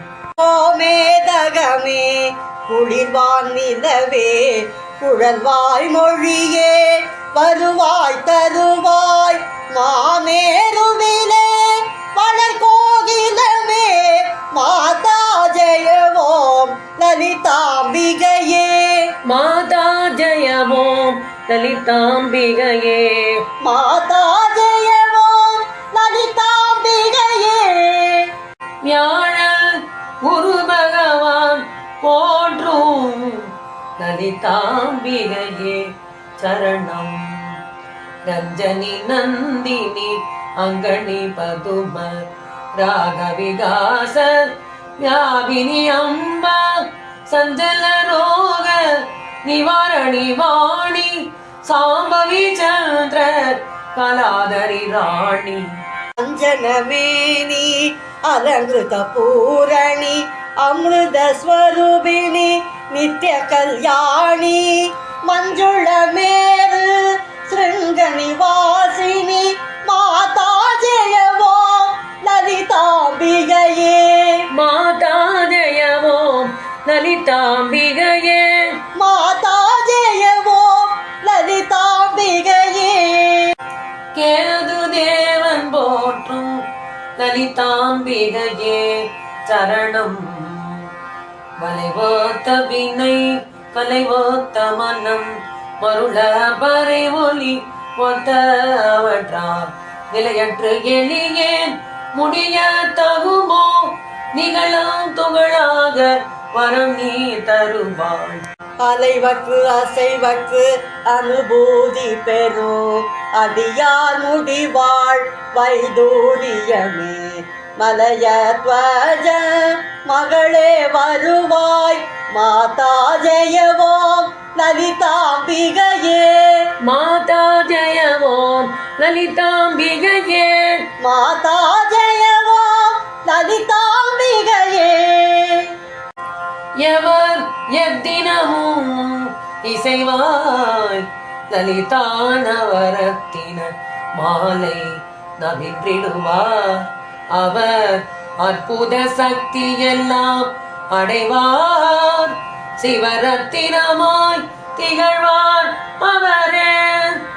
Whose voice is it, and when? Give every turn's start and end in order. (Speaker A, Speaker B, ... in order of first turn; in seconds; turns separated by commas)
Speaker A: 0.4-19.1, Speaker B: 19.2-23.4, Speaker A: 23.6-28.3, Speaker B: 28.8-35.9, Speaker B: 36.4-37.6, Speaker B: 38.3-42.3, Speaker B: 42.8-55.7, Speaker A: 56.2-74.5, Speaker B: 74.5-78.8, Speaker A: 79.0-83.5, Speaker B: 84.1-86.6, Speaker B: 87.2-90.8, Speaker B: 91.6-95.3, Speaker B: 95.8-108.5, Speaker A: 108.8-126.7, Speaker B: 126.8-130.9, Speaker A: 131.0-135.7, Speaker B: 136.8-157.2